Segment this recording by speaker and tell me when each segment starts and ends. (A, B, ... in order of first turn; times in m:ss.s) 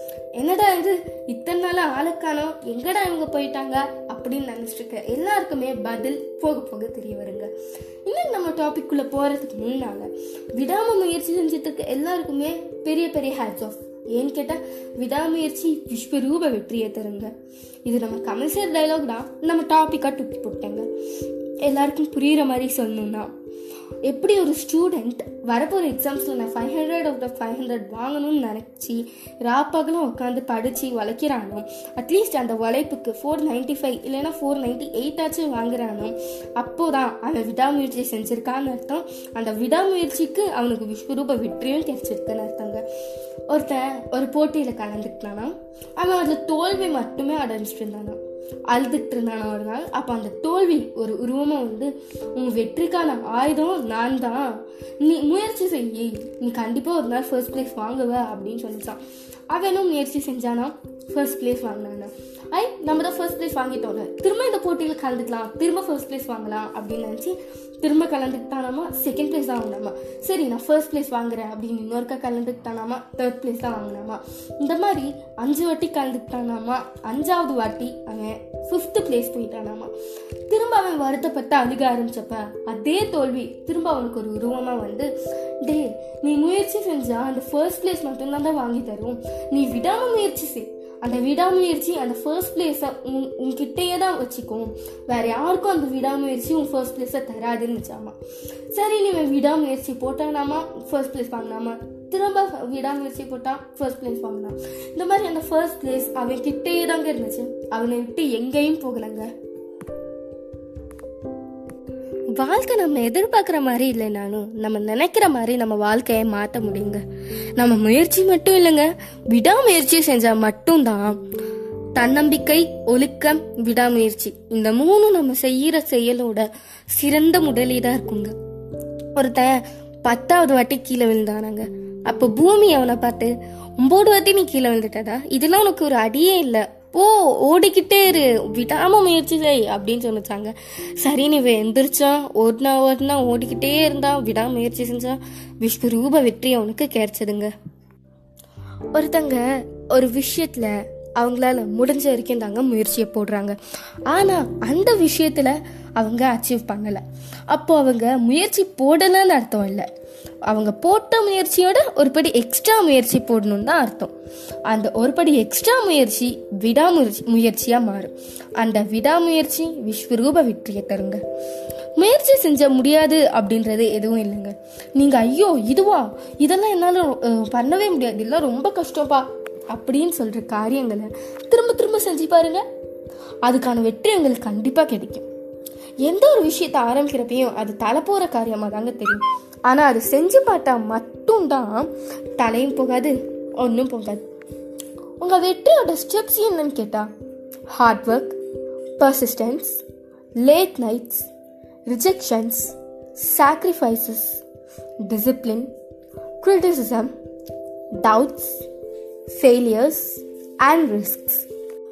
0:00.4-0:07.5 A
0:08.0-0:17.3 A
0:17.8-0:20.9 A
0:21.6-0:23.3 A
0:24.1-0:42.8 A
0:43.5-1:19.9 A
1:20.5-1:38.2 A
1:38.7-1:49.3 A
1:52.3-1:57.0 A
1:57.6-2:01.2 A
2:02.0-2:08.3 A
2:09.2-2:27.5 A
2:28.9-2:39.9 A
2:40.5-2:44.1 A
2:44.7-2:51.2 A
2:52.0-3:02.6 A
3:03.4-3:05.2 A
3:06.0-3:14.2 A
3:15.2-3:17.1 A
3:17.7-3:18.4 A
3:19.0-3:19.8 A
3:20.4-3:21.3 A
3:21.9-3:24.4 A
3:25.0-3:25.7 A
3:26.4-3:27.1 A
3:28.0-3:28.7 A
3:29.3-3:31.5 A